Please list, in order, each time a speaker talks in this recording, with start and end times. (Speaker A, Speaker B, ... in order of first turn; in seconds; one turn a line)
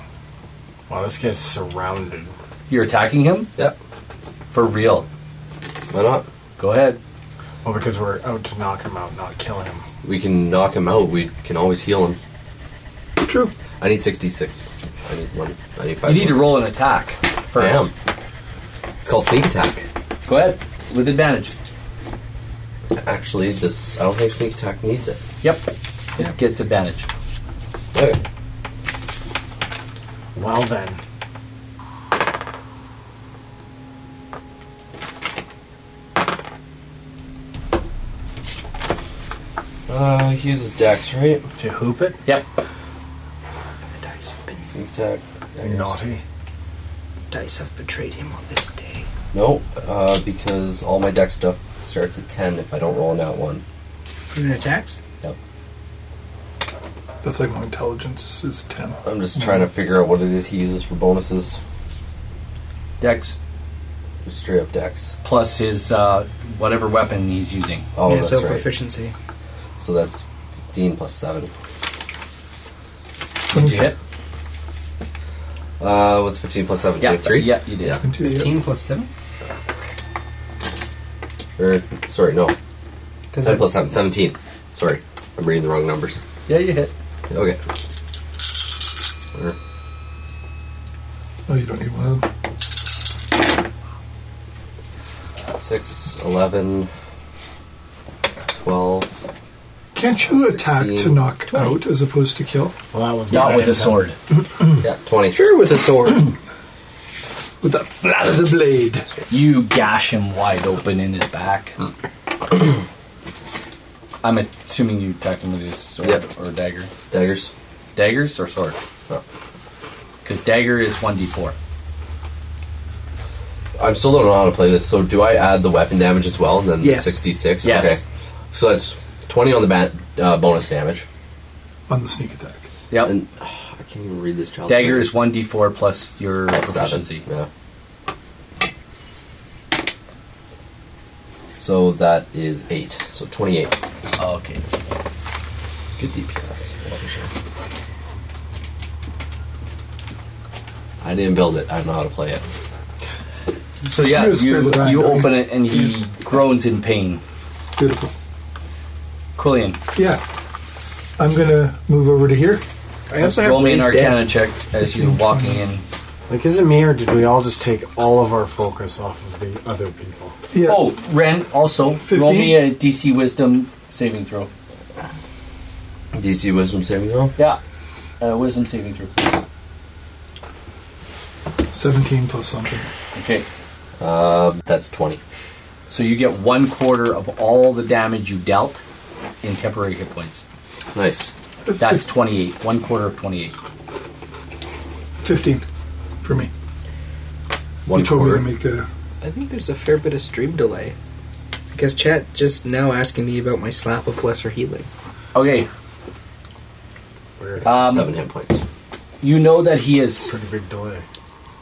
Speaker A: 0.9-2.3
Speaker B: 2.7-3.5
Speaker B: 4.5-5.1
Speaker C: 5.9-6.2
Speaker B: 6.6-7.0
Speaker A: 7.6-9.8
Speaker C: 10.0-12.2
Speaker D: 13.2-13.5
Speaker C: 13.8-16.6
Speaker B: 16.0-17.9
Speaker C: 17.5-17.9
Speaker C: 19.0-19.9
Speaker B: 20.2-21.5
Speaker C: 22.9-25.2
Speaker B: 25.4-27.1
Speaker C: 27.9-28.2
Speaker A: 30.3-31.0
Speaker C: 39.9-41.5
Speaker A: 41.6-42.2
Speaker E: 44.0-44.6
Speaker C: 44.7-45.9
Speaker A: 45.6-46.2
Speaker E: 47.3-49.1
Speaker C: 49.3-53.6
Speaker E: 54.3-55.0
Speaker D: 57.2-59.6
Speaker C: 59.0-61.6
Speaker B: 63.0-63.4
Speaker C: 64.2-65.2
Speaker B: 65.2-67.8
Speaker C: 67.9-68.7
Speaker E: 68.0-69.1
Speaker C: 69.8-71.5
Speaker B: 73.5-74.0
Speaker D: 73.5-73.9
Speaker C: 75.8-78.0
Speaker B: 77.0-78.0
Speaker D: 78.0-78.6
Speaker E: 78.2-79.1
Speaker C: 81.6-82.5
Speaker E: 83.3-83.7
Speaker C: 83.4-86.2
Speaker B: 86.5-86.9
Speaker C: 87.3-87.6
Speaker D: 91.5-92.3
Speaker C: 95.5-96.9
Speaker C: 98.5-99.1
Speaker D: 99.9-102.7
Speaker C: 100.3-101.2
Speaker A: 102.9-104.0
Speaker B: 103.3-104.2
Speaker C: 104.8-105.5
Speaker E: 105.3-106.3
Speaker D: 107.6-109.1
Speaker B: 109.3-111.8
Speaker B: 114.2-116.9
Speaker C: 117.1-117.5
Speaker B: 117.9-118.8
Speaker B: 120.2-121.5
Speaker C: 123.8-131.0
Speaker E: 126.8-127.2
Speaker B: 127.6-128.0
Speaker D: 131.9-132.7
Speaker C: 133.0-135.1
Speaker B: 134.7-137.2
Speaker C: 136.5-137.5
Speaker C: 141.6-143.7
Speaker B: 144.2-144.6
Speaker C: 146.0-147.3
Speaker C: 151.0-152.4
Speaker B: 153.8-157.2
Speaker D: 153.9-155.9
Speaker D: 157.8-158.1
Speaker B: 159.4-159.8
Speaker D: 159.9-160.2
Speaker D: 161.2-162.6
Speaker E: 163.1-164.2
Speaker B: 163.2-165.8
Speaker D: 164.8-165.6
Speaker A: 166.3-170.4
Speaker D: 170.5-170.9
Speaker B: 170.6-174.5
Speaker D: 172.0-172.7
Speaker C: 176.1-177.3
Speaker B: 178.2-179.4
Speaker D: 181.7-182.9
Speaker B: 183.1-183.4
Speaker C: 184.0-185.2
Speaker B: 185.9-188.8
Speaker B: 189.4-190.4
Speaker C: 190.9-191.3
Speaker D: 191.7-192.1
Speaker B: 191.8-193.5
Speaker D: 195.2-195.6
Speaker D: 196.2-196.5
Speaker C: 197.8-198.5
Speaker D: 197.9-198.9
Speaker E: 199.2-200.9
Speaker E: 201.7-204.9
Speaker B: 205.3-205.7
Speaker A: 207.4-207.7
Speaker C: 207.6-208.6
Speaker B: 207.6-208.1
Speaker B: 209.2-210.3
Speaker A: 210.3-211.0